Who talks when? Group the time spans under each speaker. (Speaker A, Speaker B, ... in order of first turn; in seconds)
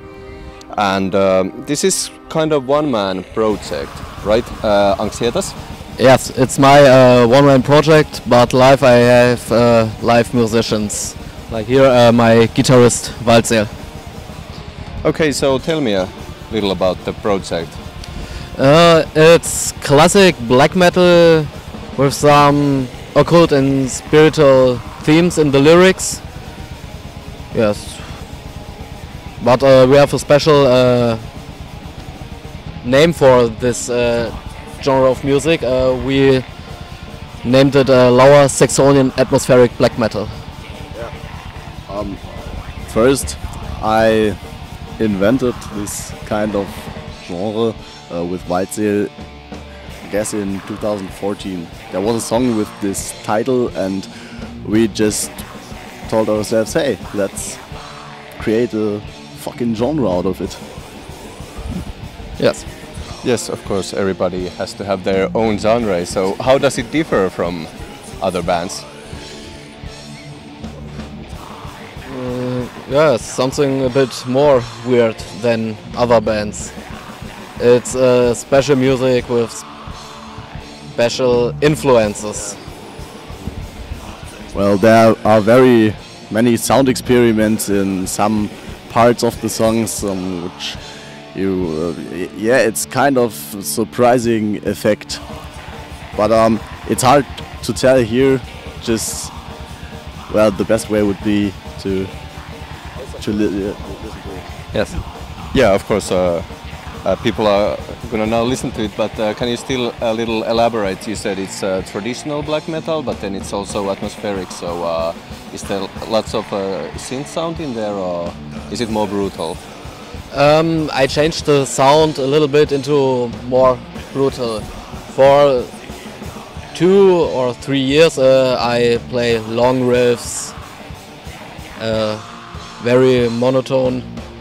Speaker A: 0.7-5.5, 15.0-17.8, 63.2-68.8, 105.5-106.5, 107.0-119.6
Speaker B: 6.0-13.7, 18.5-26.2, 27.5-28.2, 29.4-31.2, 32.8-36.4, 37.4-40.3, 62.4-62.7, 72.0-76.7, 77.6-79.6, 80.9-82.6, 120.3-125.7, 126.7-130.6, 131.8-132.2, 132.8-134.1
Speaker C: 41.9-42.2, 42.8-44.4, 45.0-49.1, 50.0-54.1, 54.6-55.5, 56.1-57.6, 58.4-60.6, 84.5-90.8, 91.3-95.2, 96.1-99.3, 100.3-102.1, 103.2-104.5